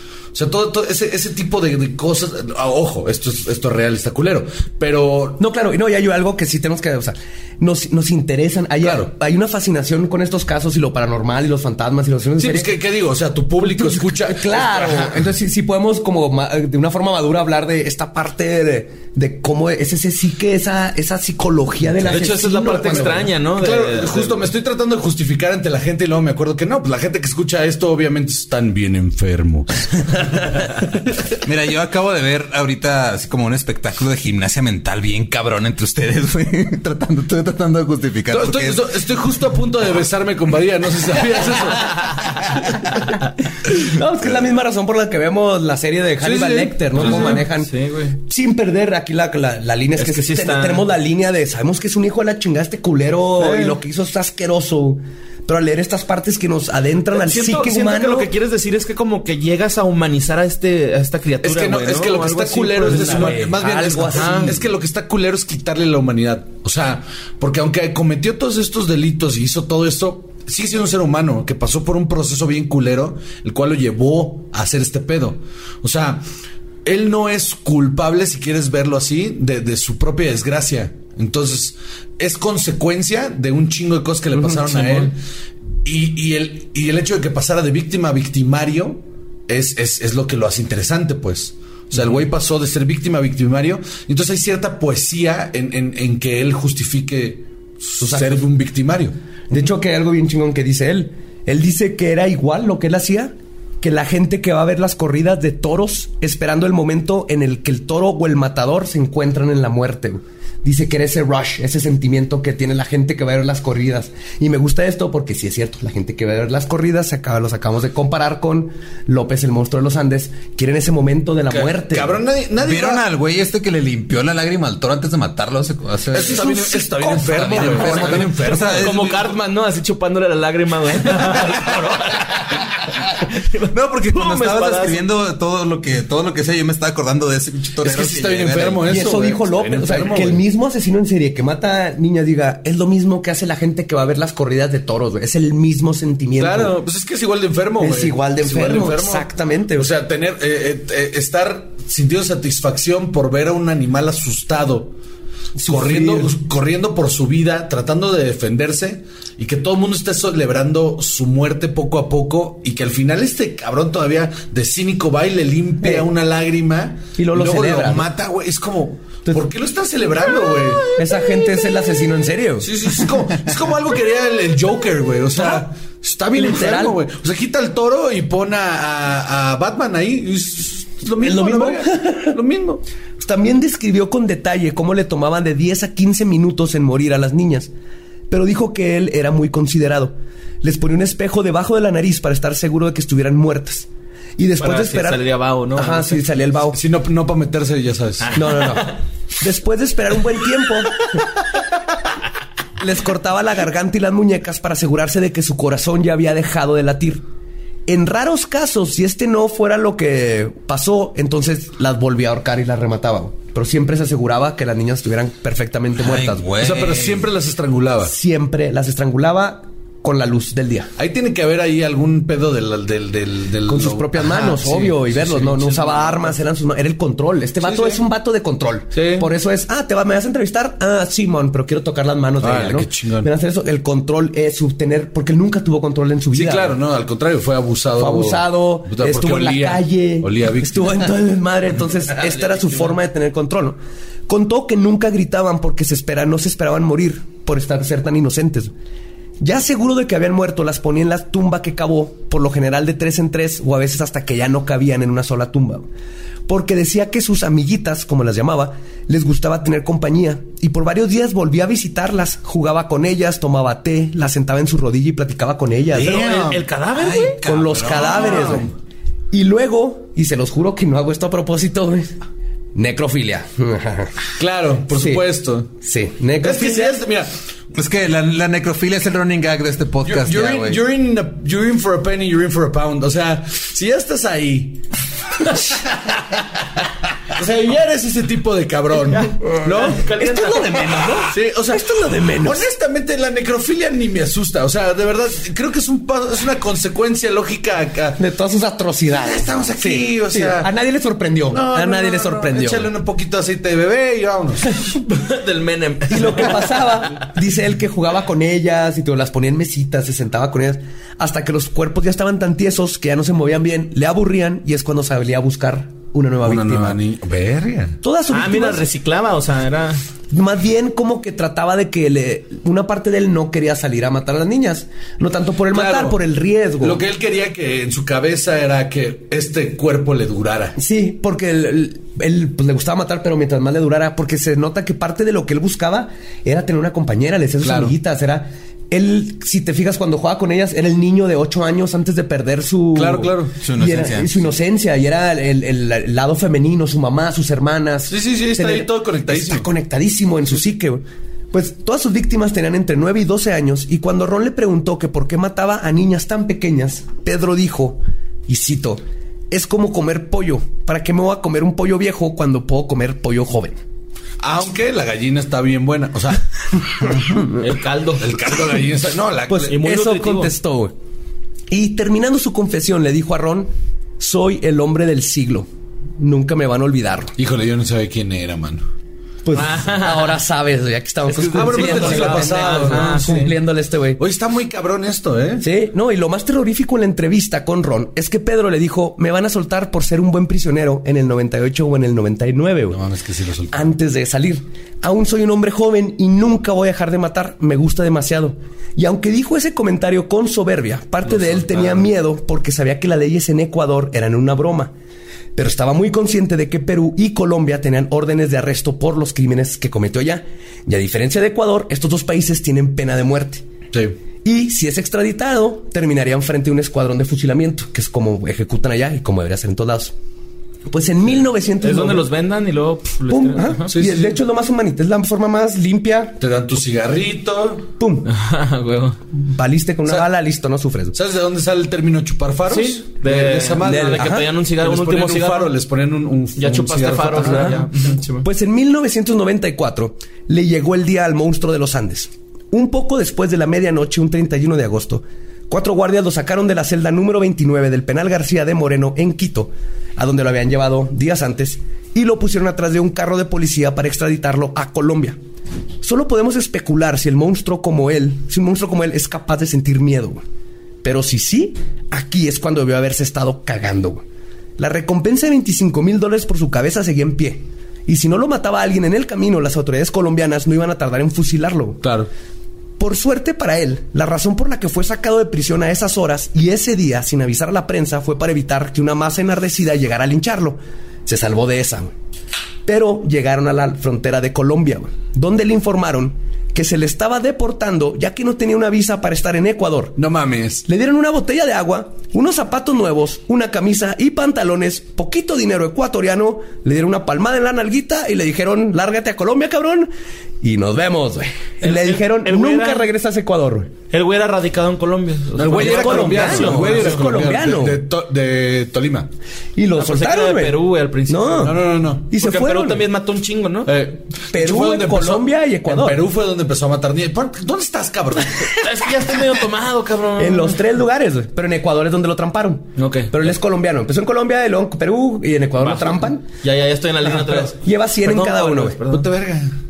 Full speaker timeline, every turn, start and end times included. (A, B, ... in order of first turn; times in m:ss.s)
0:00.3-0:05.4 A
0:05.4-0:12.8 B
0:08.8-0:09.1 A
0:12.4-0:15.2 A
0:13.6-0:23.3 B
0:22.0-0:24.4 C
0:22.8-0:30.4 A
0:31.4-0:38.8 D
0:38.3-0:42.1 A
0:43.6-0:58.3 B
0:46.2-0:47.4 A
0:47.0-0:48.2 C
0:50.0-0:50.8 C
0:53.4-0:53.7 A
0:57.1-1:03.4 C
1:01.4-1:16.2 A
1:02.9-1:04.6 B
1:04.1-1:04.6 C
1:16.8-1:25.2 A
1:25.8-1:39.1 A
1:38.0-1:38.5 B
1:39.5-2:02.2 B
2:01.5-2:03.0 A
2:02.6-2:09.3 D
2:06.1-2:09.0 A
2:06.3-2:08.2 B
2:08.4-2:15.0 C
2:13.7-2:19.0 D
2:17.8-2:20.4 A
2:18.8-2:26.8 B
2:26.4-2:34.9 A
2:27.8-2:29.9 B
2:35.6-2:36.3 B
2:35.6-2:50.8 A
2:47.2-2:48.1 B
2:51.0-2:52.7 B
2:52.6-3:02.8 A
2:56.3-2:57.0 B
3:01.2-3:02.4 B
3:03.2-3:07.7 B
3:08.3-3:16.8 B
3:14.6-3:16.2 C
3:16.7-3:18.4 A
3:18.2-3:19.0 C
3:18.3-3:21.2 B
3:22.8-3:27.2 B
3:27.9-3:36.5 B
3:36.0-3:37.3 D
3:36.6-3:38.1 A
3:38.0-3:40.9 B
3:41.0-3:46.4 A
3:43.6-3:56.8 B
3:47.6-3:48.0 A
3:48.9-3:49.2 A
3:52.4-3:53.3 A
3:56.3-4:01.1 A
3:58.0-4:08.7 B
4:09.4-4:15.9 B
4:16.5-4:26.2 B
4:25.9-4:28.7 A
4:25.9-4:27.4 C
4:27.0-4:28.6 D
4:27.4-4:28.7 B
4:29.3-4:32.1 B
4:32.7-4:34.2 B
4:34.4-4:35.7 A
4:34.9-4:35.2 B
4:35.8-4:37.0 B
4:36.4-4:37.3 A
4:37.7-4:40.8 D
4:40.0-4:46.4 A
4:47.2-4:49.4 A
4:49.1-4:51.0 C
4:49.5-4:52.7 B
4:51.3-4:58.2 A
4:58.2-5:02.9 B
4:59.1-5:00.7 A
5:01.5-5:04.8 A
5:04.9-5:06.8 C
5:06.1-5:17.0 B
5:16.4-5:18.0 A
5:18.0-5:18.8 B
5:18.3-5:20.0 C
5:20.3-5:27.0 B
5:25.7-5:26.2 A
5:26.8-5:30.8 A
5:30.8-6:03.8 B
5:37.6-5:37.9 A
5:42.9-5:43.6 A
5:43.6-5:44.4 D
5:48.1-5:49.7 A
6:04.4-6:06.4 A
6:07.5-6:08.4 C
6:08.2-6:09.8 A
6:09.5-6:10.9 B
6:09.7-6:10.5 C
6:11.7-6:17.3 B
6:17.4-6:18.8 A
6:19.4-6:24.2 B
6:19.5-6:20.3 C
6:21.5-6:23.2 A
6:21.5-6:23.5 C
6:24.2-6:25.6 A
6:25.6-6:33.0 B
6:32.9-6:33.9 A
6:33.7-6:44.9 B
6:41.2-6:42.1 A
6:45.6-6:53.6 B
6:54.4-7:00.1 B
7:00.9-7:02.2 B
7:01.8-7:03.9 C
7:03.3-7:06.4 B
7:03.9-7:04.4 A
7:06.4-7:07.9 A
7:08.0-7:08.3 B
7:08.2-7:09.2 C
7:09.3-7:11.2 B
7:11.1-7:17.9 A
7:12.7-7:15.7 C
7:13.8-7:14.5 B
7:16.6-7:18.4 C
7:17.4-7:17.8 B
7:18.4-7:35.4 B
7:36.0-7:40.4 B
7:41.0-7:44.2 B
7:44.8-7:52.0 B
7:52.0-7:52.3 A
7:53.0-8:02.1 B
8:02.8-8:10.2 B
8:10.2-8:10.8 A
8:10.8-8:20.1 B
8:20.6-8:23.9 B
8:21.8-8:23.1 C
8:24.1-8:27.2 C
8:25.5-8:29.3 A
8:25.7-8:28.0 B
8:29.8-8:33.0 B
8:30.0-8:33.9 C
8:31.6-8:32.3 A
8:33.8-8:38.9 A
8:34.5-8:36.2 B
8:38.5-8:40.8 C
8:40.4-8:46.4 B
8:43.0-8:43.3 C
8:45.8-8:49.3 C
8:47.3-8:49.0 B
8:49.1-8:49.7 A